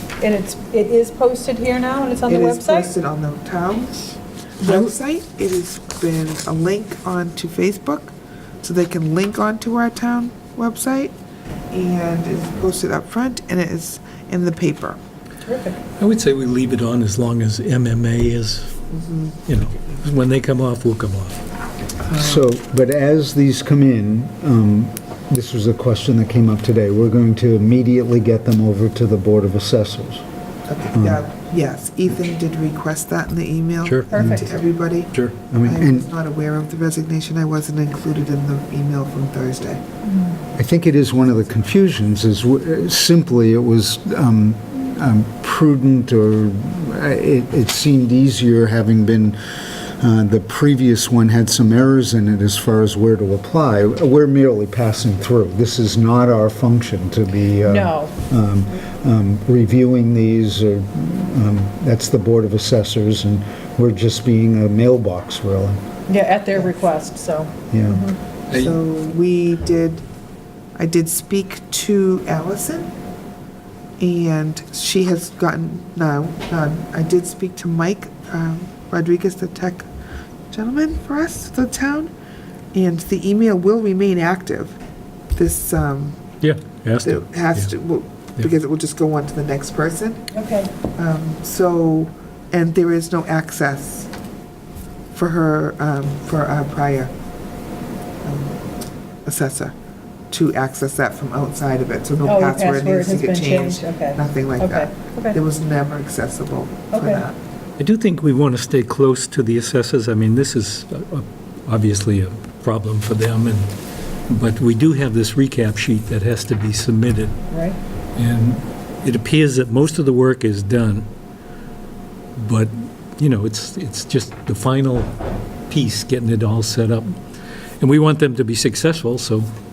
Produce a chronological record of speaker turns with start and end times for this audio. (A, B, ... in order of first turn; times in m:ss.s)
0:00.2-0:02.9 A
0:02.3-0:11.1 B
0:11.7-0:15.0 B
0:15.4-0:15.8 A
0:16.0-0:18.7 C
0:18.9-0:19.5 B
0:19.4-0:21.4 C
0:22.0-0:22.4 B
0:22.1-0:30.2 D
0:30.7-0:39.8 B
0:30.9-0:31.2 D
0:33.8-0:34.1 C
0:34.1-0:34.5 A
0:34.1-0:34.4 D
0:35.5-0:36.1 D
0:40.1-0:40.4 A
0:40.6-0:49.4 D
0:50.0-1:05.8 D
0:57.6-0:58.1 A
1:06.1-1:08.2 A
1:06.5-1:07.0 B
1:07.7-1:08.0 D
1:08.5-1:10.0 B
1:10.8-1:12.9 B
1:14.0-1:19.9 B
1:20.5-1:22.1 B
1:22.7-1:24.8 B
1:25.3-1:26.2 B
1:26.4-1:27.7 C
1:27.0-1:30.3 B
1:30.3-1:30.7 A
1:30.8-1:34.1 B
1:35.1-1:37.1 B
1:38.2-1:38.6 B
1:39.2-1:39.7 B
1:40.3-1:47.4 B
1:42.2-1:45.4 A
1:46.9-1:47.2 A
1:47.8-1:53.7 C
1:54.3-1:57.4 C
1:57.5-1:57.8 A
1:58.2-2:01.1 C
2:02.4-2:05.1 C
2:05.7-2:07.2 C
2:07.8-2:09.5 C